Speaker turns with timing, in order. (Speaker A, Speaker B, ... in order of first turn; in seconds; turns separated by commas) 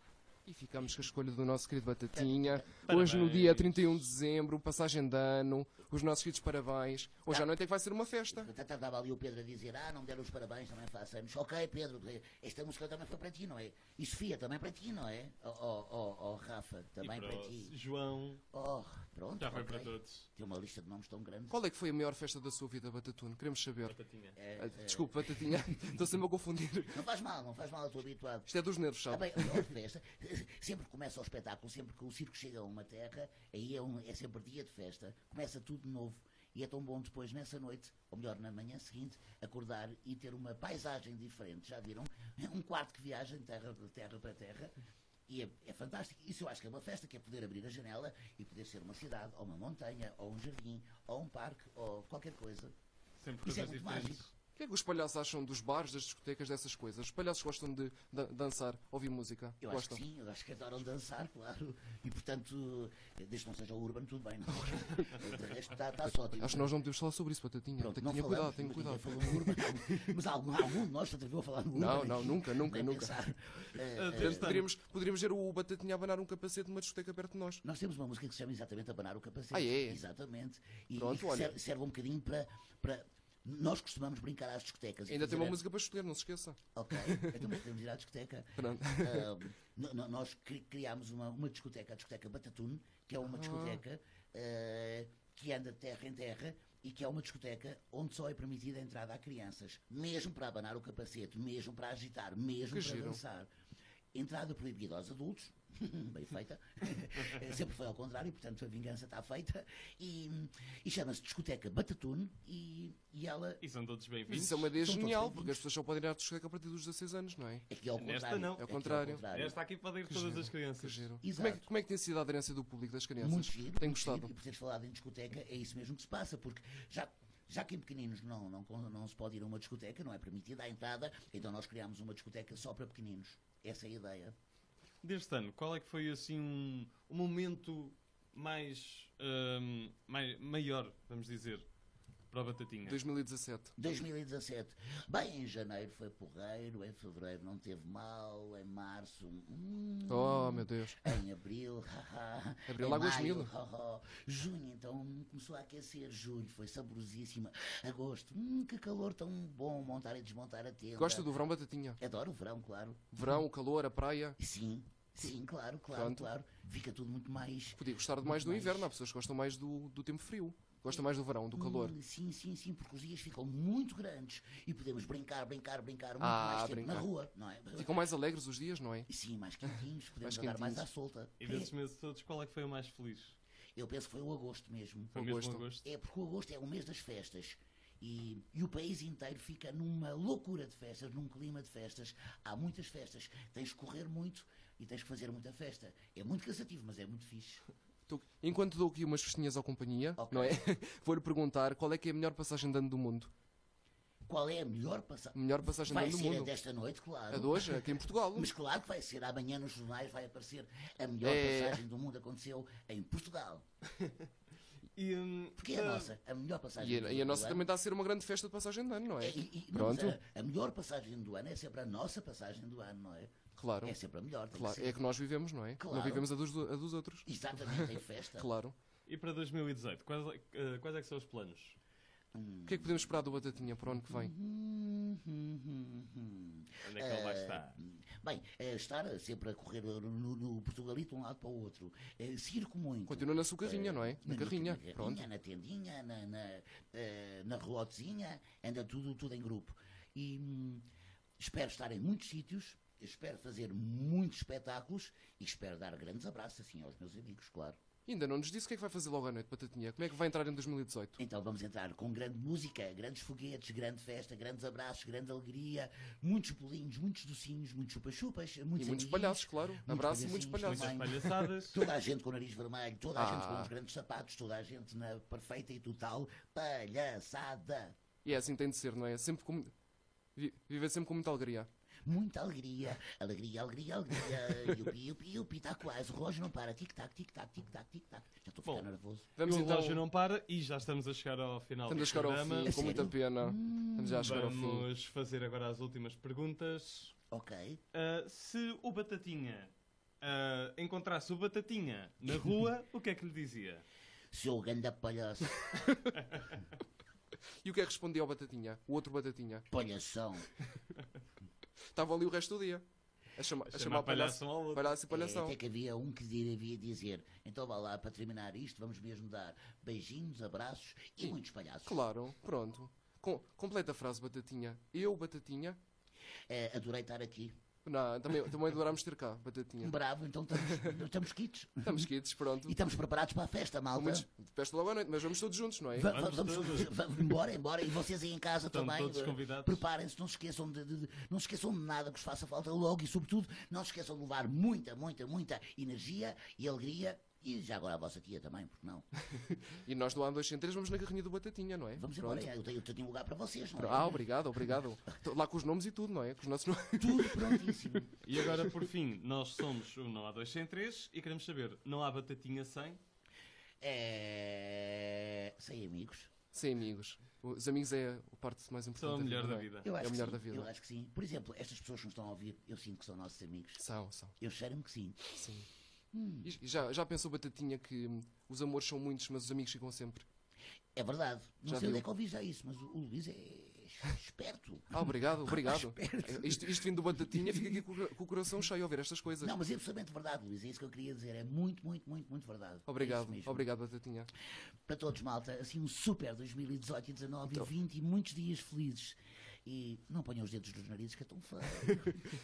Speaker A: 0.5-8.5, Speaker B: 0.8-1.0, Speaker B: 2.1-2.9, Speaker C: 2.9-4.0, Speaker B: 8.3-17.7, Speaker C: 17.0-18.4, Speaker B: 18.5-21.6, Speaker C: 19.4-20.3, Speaker A: 21.5-24.0, Speaker C: 23.9-24.4, Speaker B: 24.4-25.8, Speaker A: 24.6-27.0, Speaker B: 26.9-28.5, Speaker A: 28.5-29.7, Speaker B: 29.1-44.7, Speaker B: 45.3-52.7, Speaker C: 53.2-54.3, Speaker B: 53.4-54.2, Speaker A: 54.5-60.0, Speaker B: 59.6-66.7, Speaker A: 64.7-65.1, Speaker A: 66.4-70.0, Speaker B: 67.8-74.6, Speaker A: 71.7-73.1, Speaker C: 73.9-74.7, Speaker A: 74.1-77.6, Speaker B: 77.6-85.6, Speaker A: 79.5-80.0, Speaker A: 80.9-81.6, Speaker A: 85.1-87.4, Speaker B: 86.7-103.5, Speaker A: 88.6-89.3, Speaker A: 93.2-93.8, Speaker A: 102.7-103.2, Speaker B: 104.1-113.6, Speaker C: 113.6-114.7, Speaker A: 114.3-117.7, Speaker B: 114.8-115.6, Speaker B: 117.7-119.6, Speaker C: 118.0-118.7, Speaker A: 118.6-119.2, Speaker C: 119.3-121.1, Speaker A: 120.1-124.3, Speaker B: 121.2-121.7, Speaker B: 123.2-134.3, Speaker C: 135.0-141.7, Speaker C: 142.3-143.0, Speaker A: 142.8-143.7, Speaker B: 143.8-161.3, Speaker A: 150.1-151.1, Speaker A: 152.7-153.5, Speaker A: 160.9-162.0, Speaker B: 162.0-163.4, Speaker A: 163.1-164.4, Speaker B: 164.4-168.9, Speaker A: 165.9-166.3, Speaker A: 167.8-172.0, Speaker B: 170.9-178.0, Speaker A: 176.2-177.1, Speaker A: 177.8-179.1, Speaker B: 179.1-181.7, Speaker A: 180.2-180.8, Speaker C: 181.4-183.4, Speaker B: 183.8-185.2, Speaker A: 185.1-185.6, Speaker C: 185.1-185.9, Speaker B: 185.8-197.6, Speaker A: 198.1-203.3, Speaker B: 200.2-200.7, Speaker B: 204.2-213.6, Speaker A: 205.3-206.5, Speaker A: 207.3-208.5, Speaker A: 211.2-211.8, Speaker C: 214.9-216.1, Speaker B: 215.6-217.7, Speaker A: 216.8-220.2, Speaker B: 219.2-225.0, Speaker A: 223.6-224.0, Speaker A: 224.5-228.7, Speaker B: 225.8-226.3, Speaker B: 227.2-228.5, Speaker C: 229.1-231.8, Speaker B: 232.3-250.8, Speaker A: 232.7-234.3, Speaker C: 236.8-237.8, Speaker A: 243.1-245.2, Speaker B: 251.4-257.8, Speaker A: 258.1-261.2, Speaker B: 261.2-278.0, Speaker A: 268.8-271.1, Speaker C: 270.6-271.8, Speaker A: 273.1-273.7, Speaker A: 278.2-279.7, Speaker A: 280.4-281.7, Speaker B: 282.0-289.3, Speaker C: 288.6-288.9, Speaker A: 289.4-290.0, Speaker C: 289.4-293.1, Speaker A: 291.9-294.9, Speaker B: 292.6-294.4, Speaker C: 294.2-297.1, Speaker B: 297.3-297.8, Speaker C: 297.9-303.8, Speaker B: 304.3-305.7, Speaker A: 307.6-309.7, Speaker B: 309.7-310.5, Speaker A: 311.9-312.8, Speaker A: 313.4-315.6, Speaker C: 313.6-315.0, Speaker B: 315.1-322.0, Speaker A: 321.2-325.8, Speaker B: 326.5-327.6, Speaker A: 327.8-330.0, Speaker B: 329.8-332.1, Speaker A: 330.5-331.0, Speaker A: 331.8-332.8, Speaker B: 332.6-334.3, Speaker A: 333.9-336.1, Speaker B: 335.9-349.1, Speaker C: 336.1-336.9, Speaker C: 338.7-339.8, Speaker A: 349.5-352.5, Speaker B: 351.9-354.3, Speaker A: 353.8-357.7, Speaker B: 357.0-358.4, Speaker C: 358.2-363.0, Speaker B: 363.8-366.3, Speaker A: 366.5-370.7, Speaker C: 369.0-369.9, Speaker B: 369.8-373.8, Speaker A: 373.8-374.3, Speaker B: 374.4-375.4, Speaker A: 375.4-375.7, Speaker B: 376.1-376.5, Speaker A: 376.4-380.2, Speaker B: 380.9-387.9, Speaker A: 381.6-382.1, Speaker A: 384.9-389.5, Speaker B: 389.4-393.7, Speaker A: 392.9-394.3, Speaker B: 394.9-402.2